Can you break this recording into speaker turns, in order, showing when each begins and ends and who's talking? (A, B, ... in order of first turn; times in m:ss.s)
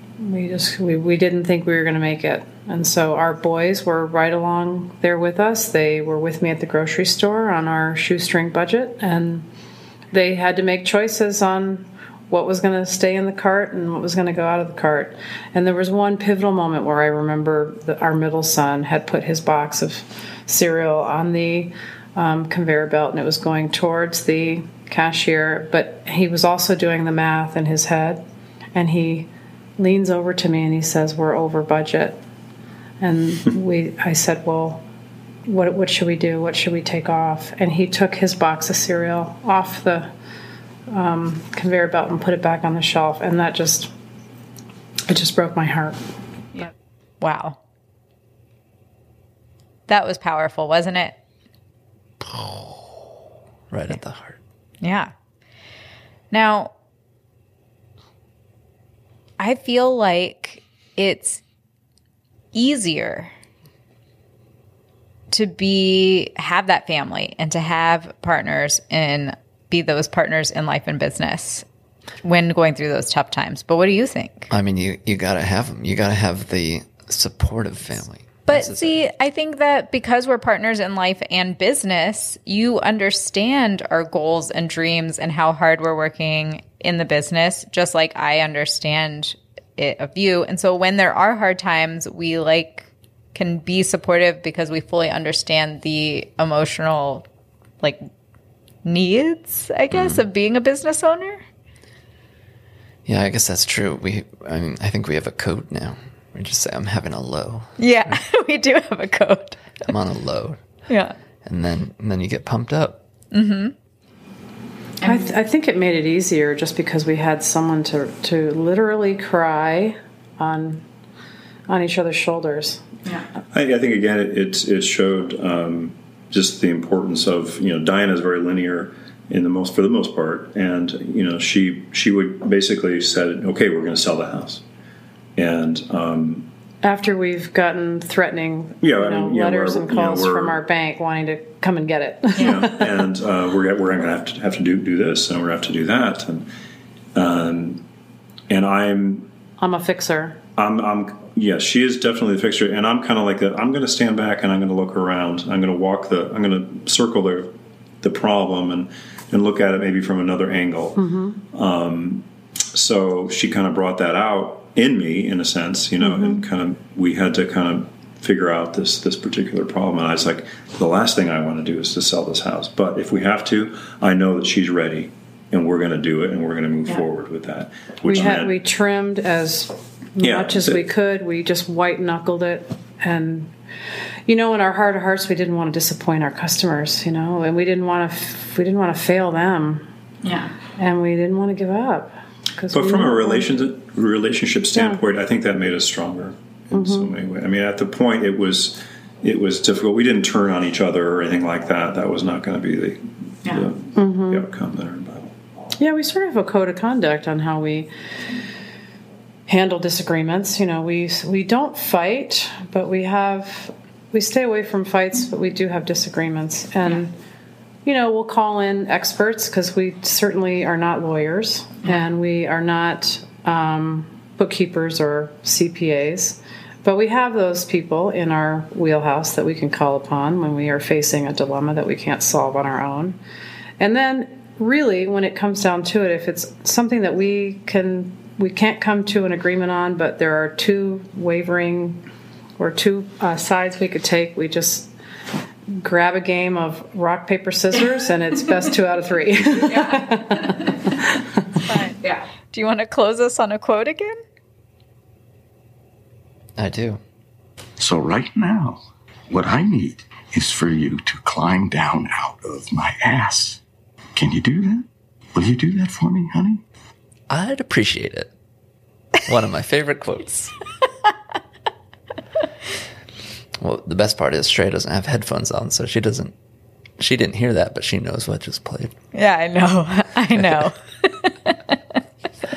0:00.2-0:09.5 A
0:10.1-0:28.2 A
0:28.8-0:32.2 A
0:33.0-0:34.8 A
0:35.5-0:40.1 A
0:40.9-0:43.9 A
0:45.1-0:46.0 A
0:46.5-0:47.6 B
0:49.9-0:51.2 B
0:52.2-0:52.9 C
0:53.7-0:54.4 C
0:54.8-0:55.1 B
0:56.3-0:56.7 B
0:59.4-1:01.4 B
1:02.5-1:03.3 B
1:05.3-1:11.6 B
1:12.2-1:14.5 B
1:14.5-1:19.0 C
1:18.5-1:37.3 B
1:38.8-1:41.4 B
1:39.9-1:40.2 C
1:43.1-1:48.2 C
1:47.8-1:49.6 B
1:49.8-1:50.6 C
1:50.9-1:51.2 B
1:51.4-1:53.0 C
1:53.3-1:53.7 B
1:55.0-2:00.8 A
2:01.7-2:02.8 A
2:03.5-2:14.6 D
2:15.4-2:16.5 D
2:16.8-2:22.9 A
2:18.8-2:20.6 D
2:22.4-2:26.5 D
2:27.2-2:27.8 D
2:28.5-2:29.3 D
2:29.6-2:30.4 A
2:30.6-2:37.5 D
2:38.0-2:41.0 D
2:41.0-2:41.4 A
2:41.5-2:58.5 D
2:46.0-2:46.4 A
2:58.1-3:03.5 A
3:00.2-3:00.8 D
3:04.3-3:09.8 A
3:10.7-3:13.5 A
3:12.7-3:25.3 D
3:14.8-3:15.0 A
3:16.7-3:17.2 A
3:23.9-3:24.4 A
3:25.8-3:27.9 A
3:29.5-3:37.1 A
3:37.8-3:53.2 A
3:53.8-4:02.0 A
4:02.6-4:04.9 A
4:05.8-4:10.9 A
4:11.6-4:14.2 B
4:16.6-4:17.0 C
4:17.8-4:23.6 E
4:24.2-4:26.6 E
4:27.3-4:28.3 C
4:29.3-4:30.6 C
4:33.6-4:36.3 C
4:37.0-4:38.9 C
4:39.1-4:41.8 B
4:40.4-4:40.6 C